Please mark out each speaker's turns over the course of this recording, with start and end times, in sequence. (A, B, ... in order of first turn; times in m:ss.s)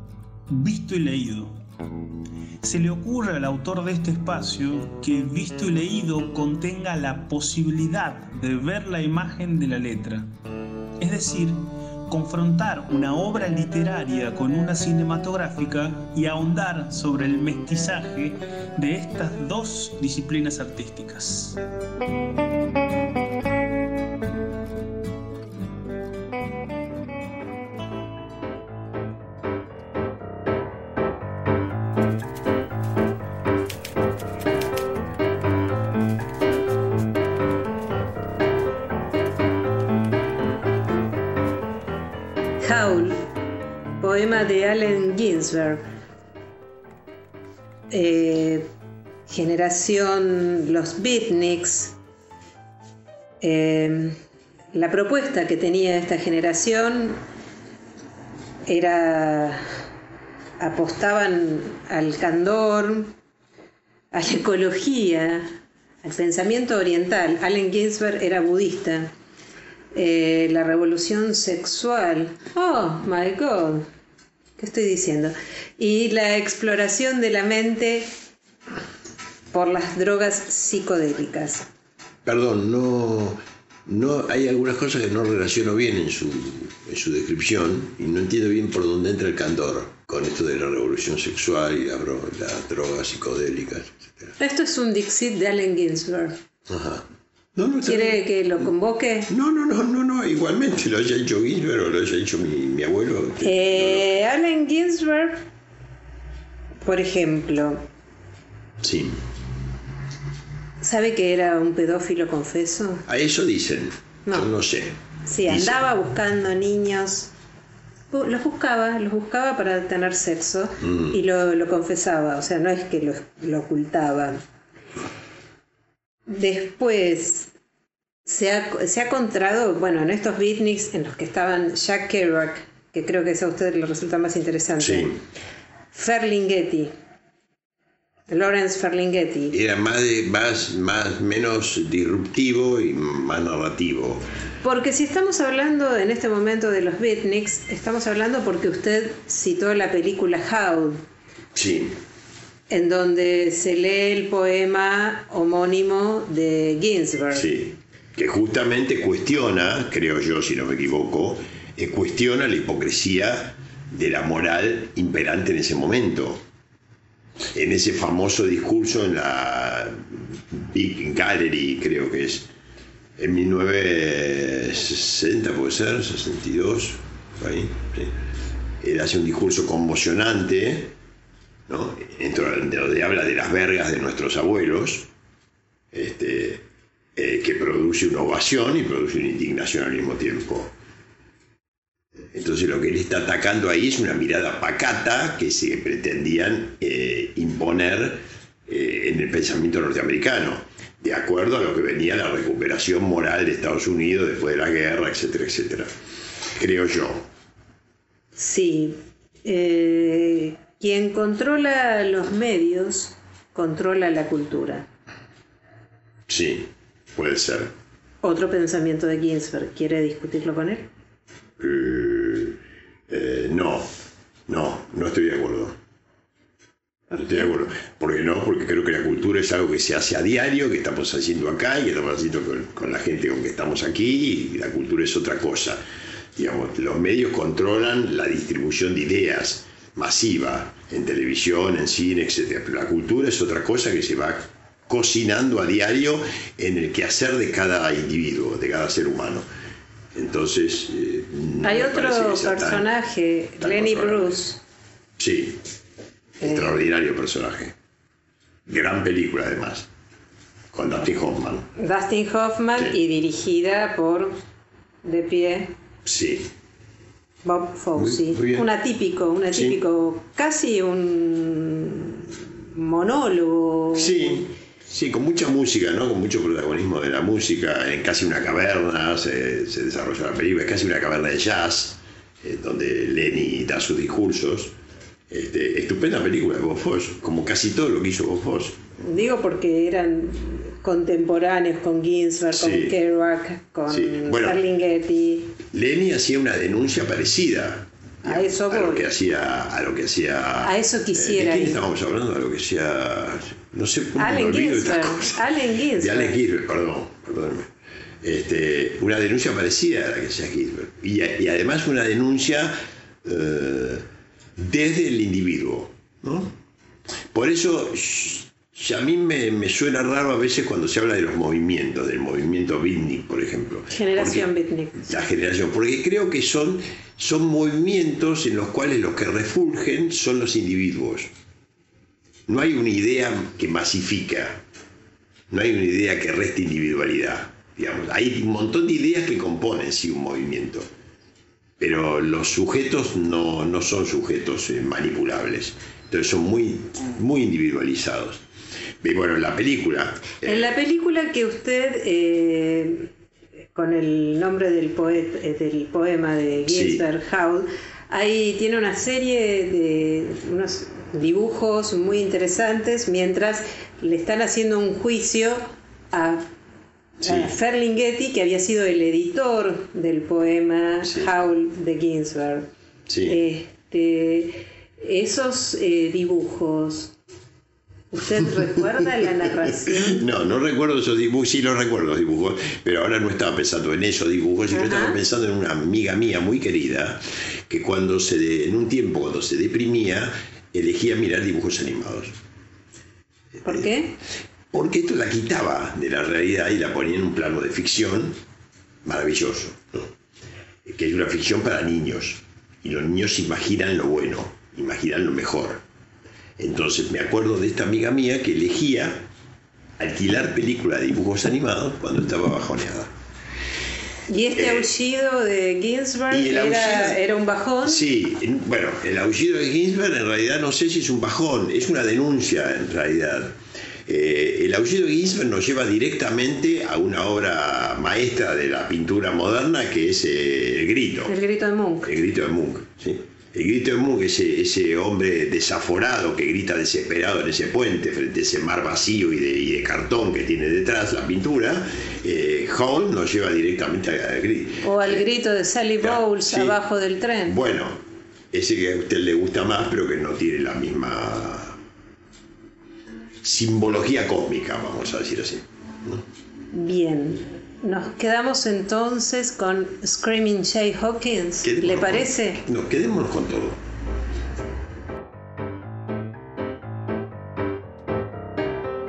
0:00.5-0:01.6 A
0:02.6-0:10.3 A
0:11.0-0:21.6 A
0:42.6-0:43.3 B
0:44.0-0:45.8 B
0:47.9-0:48.6 B
0:49.3-0:52.0 B
0:53.4-0:54.2 B
0:54.7-0:57.2 B
0:58.7-0:59.6 B
1:00.6-1:03.1 B
1:04.1-1:05.4 B
1:06.0-1:09.1 B
1:09.9-1:13.8 B
1:14.6-1:18.1 B
1:19.5-1:21.7 B
1:22.2-1:34.3 C
1:34.4-1:36.4 B
1:36.7-1:38.2 C
1:37.8-1:39.3 B
1:39.3-1:44.1 C
1:43.4-1:45.4 B
1:46.8-1:47.8 B
1:48.8-1:49.2 C
1:50.8-1:53.0 B
1:53.1-1:55.8 C
1:55.2-1:57.3 B
1:58.1-2:04.4 B
2:06.3-2:07.5 B
2:08.2-2:15.2 B
2:14.8-2:15.2 C
2:15.9-2:16.9 B
2:18.3-2:19.6 B
2:19.5-2:24.2 C
2:24.6-2:31.0 B
2:31.5-2:32.0 C
2:32.7-2:37.5 B
2:37.3-2:46.4 C
2:47.5-2:52.5 C
2:53.2-2:58.1 C
2:58.8-3:00.9 C
3:01.7-3:05.1 C
3:05.9-3:06.6 C
3:07.2-3:10.7 C
3:12.3-3:25.9 C
3:26.5-3:27.2 C
3:28.3-3:34.9 B
3:36.3-3:37.7 C
3:38.2-3:40.9 B
3:41.6-3:42.6 C
3:43.1-3:43.9 C
3:44.5-3:45.8 C
3:47.1-3:55.8 C
3:56.4-4:09.4 C
4:10.1-4:12.9 C
4:11.6-4:14.6 B
4:13.6-4:14.4 C
4:15.2-4:15.6 C
4:16.4-4:16.7 B
4:16.4-4:17.7 C
4:18.6-4:19.9 C
4:20.7-4:21.7 C
4:21.8-4:24.4 B
4:25.0-4:25.7 B
4:26.0-4:26.5 C
4:27.4-4:34.5 B
4:28.0-4:28.6 C
4:29.5-4:29.8 C
4:33.9-4:44.7 C
4:45.3-4:48.8 C
4:49.0-4:55.6 B
4:52.5-4:52.9 C
4:53.9-4:54.6 C
4:55.7-5:05.4 C
4:58.2-4:59.1 B
5:00.6-5:01.8 B
5:04.2-5:06.4 B
5:06.0-5:07.7 C
5:08.2-5:14.0 C
5:14.6-5:16.6 C
5:17.3-5:24.5 C
5:23.9-5:25.1 B
5:25.0-5:31.3 C
5:32.5-5:34.6 C
5:35.5-5:40.9 C
5:41.8-5:48.4 C
5:49.0-5:50.7 C
5:50.4-5:53.1 B
5:53.7-6:06.4 B
5:56.6-5:57.0 C
6:07.2-6:07.5 C
6:07.2-6:12.7 B
6:11.0-6:11.3 C
6:13.1-6:13.4 C
6:13.3-6:17.1 B
6:18.1-6:20.2 B
6:19.9-6:32.3 C
6:24.7-6:25.2 B
6:33.6-6:34.2 B
6:34.7-6:38.4 C
6:39.0-6:40.0 C
6:40.8-6:45.8 C
6:46.6-6:49.2 C
6:50.0-6:53.1 C
6:54.3-6:58.0 B
6:54.6-6:54.9 C
6:56.3-6:57.2 C
6:57.8-7:11.3 C
7:11.2-7:12.1 B
7:12.0-7:25.2 C
7:24.8-7:27.6 B
7:26.0-7:26.8 C
7:27.4-7:28.0 C
7:28.5-7:31.8 C
7:33.4-7:36.2 C
7:36.7-7:42.6 B
7:41.6-7:43.8 C